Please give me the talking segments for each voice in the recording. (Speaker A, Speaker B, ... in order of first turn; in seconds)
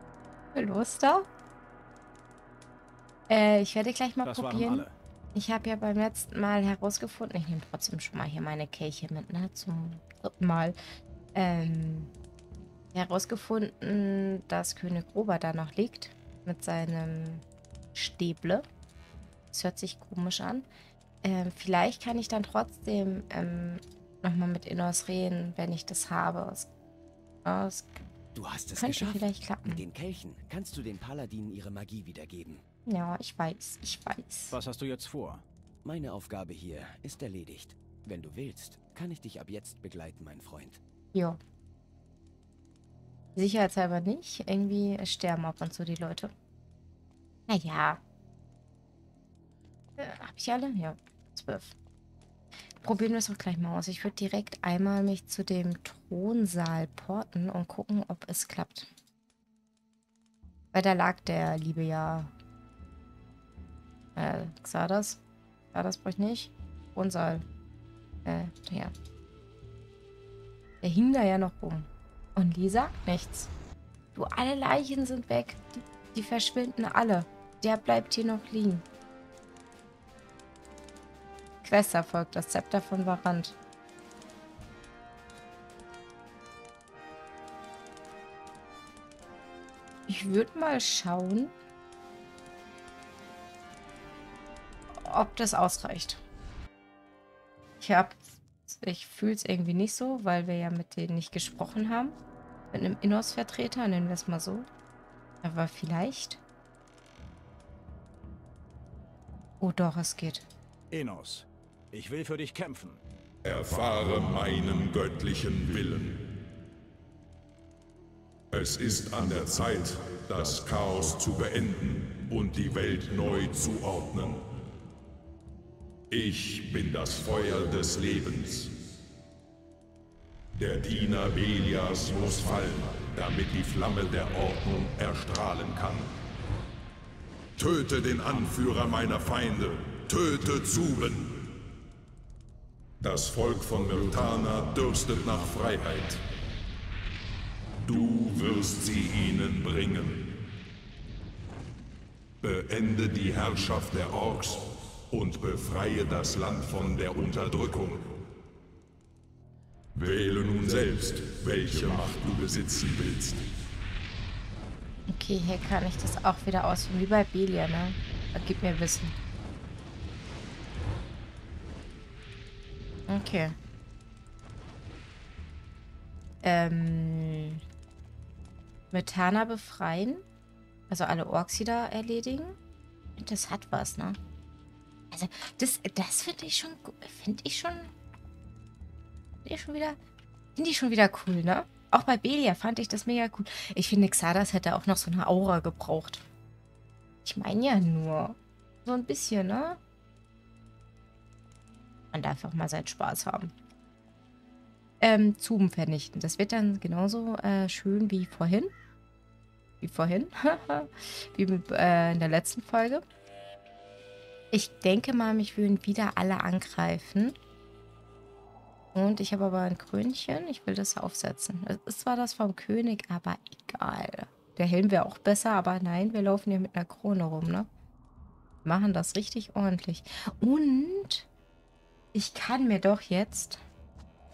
Speaker A: 0.5-1.3, 3.3-10.8, 11.3-12.1, 12.9-18.6, 19.5-20.7, 21.2-26.7, 27.4-28.0, 28.8-29.8, 32.9-34.5, 41.1-41.4, 43.4-46.3, 47.5-48.0, 50.0-51.8, 52.8-58.9, 60.7-62.3, 64.2-65.2, 65.7-67.4, 68.2-68.9, 70.8-73.5, 74.1-78.8, 81.6-83.5, 90.1-91.5, 94.9-96.2, 97.8-102.2, 102.7-104.7, 105.4-106.4, 109.6-110.5, 165.1-169.1, 173.1-173.6, 176.4-177.6, 178.9-180.2, 180.9-182.6, 183.2-184.2, 185.1-187.9, 189.4-190.0, 190.6-196.2, 197.2-199.8, 202.1-203.5, 205.0-208.7, 209.8-213.0, 214.5-217.3, 218.9-227.7, 228.6-231.3, 232.1-233.6
Speaker B: 4.2-5.0, 34.5-35.5, 110.9-113.0
Speaker C: 28.3-32.6, 35.8-40.8
Speaker D: 113.4-116.3, 118.5-124.5, 126.1-128.8, 130.5-136.1, 137.6-141.6, 143.0-146.2, 147.8-150.4, 152.4-158.1, 159.9-163.5